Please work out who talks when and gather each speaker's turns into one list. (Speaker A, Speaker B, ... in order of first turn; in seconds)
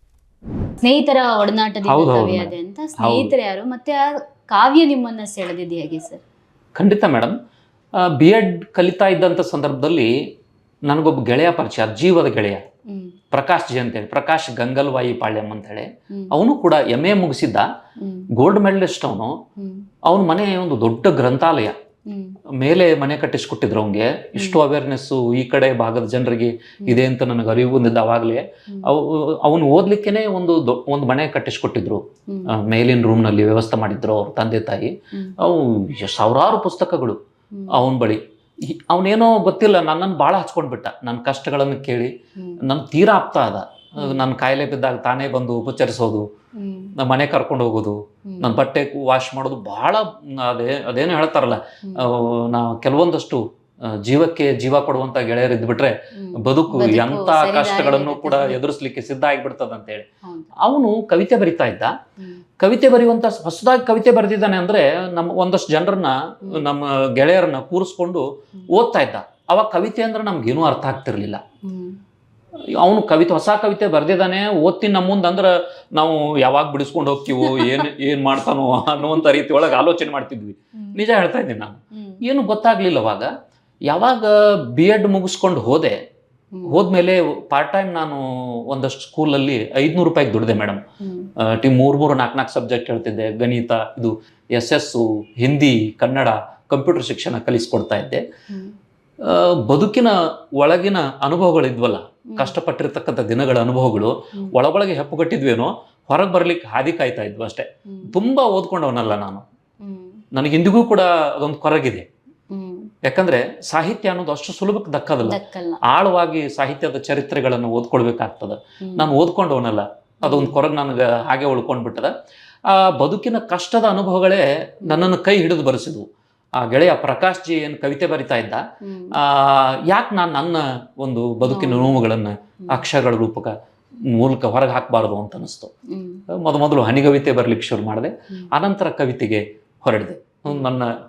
Speaker A: 0.8-6.2, 12.9-13.1, 18.0-18.3, 19.6-19.9, 22.1-22.4, 46.6-46.9, 51.8-52.1, 56.1-58.6, 60.2-60.5, 71.6-72.0, 77.4-77.9, 81.9-82.2, 86.5-86.8, 91.0-91.3, 107.9-108.1, 109.8-110.2, 112.5-112.9, 115.2-115.8, 120.2-120.5, 128.8-129.2, 131.5-132.0, 135.9-136.2
Speaker B: 1.8-3.3, 6.8-7.3, 8.0-10.1, 10.9-12.6, 13.3-17.6, 18.4-19.4, 20.1-21.7, 22.6-37.2, 37.7-42.1, 42.6-46.2, 47.0-53.4, 54.0-60.0, 60.6-61.9, 62.6-71.4, 72.8-83.3, 83.9-86.0, 86.7-90.8, 91.4-98.2, 99.2-109.4, 110.3-112.0, 113.0-122.1, 122.7-126.0, 126.6-128.6, 129.1-133.5, 134.1-135.7, 136.3-140.9